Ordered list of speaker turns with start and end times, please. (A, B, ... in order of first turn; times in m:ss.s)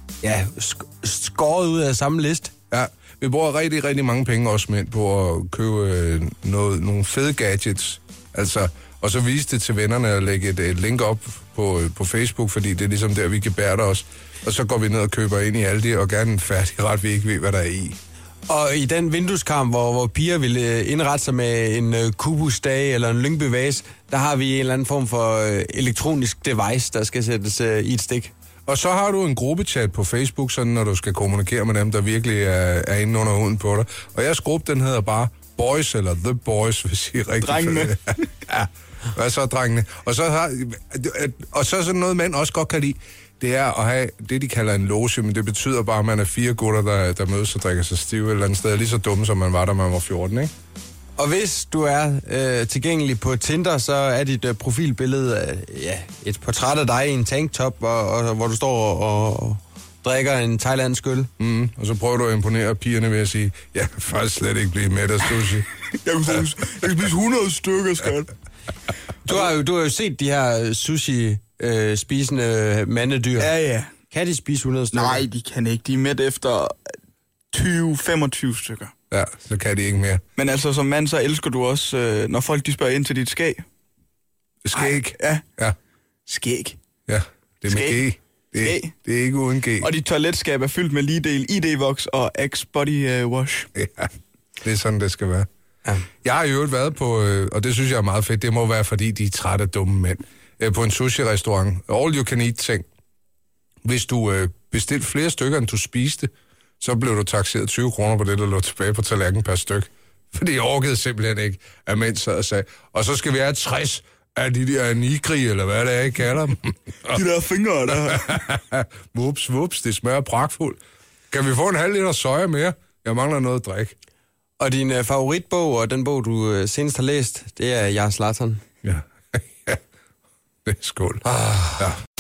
0:00.2-0:02.5 A
0:02.7-0:18.0 B
0:18.5-0:28.3 A
0:28.7-0:50.5 B
0:37.4-0:38.3 C
0:51.2-1:01.3 A
1:01.4-1:05.7 B
1:06.0-1:08.3 C
1:09.3-1:13.5 A
1:13.4-1:13.9 C
1:14.1-1:15.2 A
1:14.9-1:17.0 C
1:17.5-1:18.9 C
1:19.1-1:20.2 B
1:20.4-1:23.6 C
1:24.6-1:25.8 B
1:24.8-1:25.4 C
1:26.3-1:26.8 C
1:27.1-1:29.9 B
1:27.7-1:28.0 C
1:28.6-1:28.9 C
1:29.8-1:33.7 C
1:33.8-1:34.1 B
1:34.6-1:35.5 B
1:36.2-1:42.9 B
1:43.8-1:57.2 B
1:57.1-1:58.4 C
1:58.1-2:04.0 B
2:04.6-2:08.6 A
2:08.8-2:09.8 B
2:10.6-2:11.2 B
2:11.2-2:11.9 A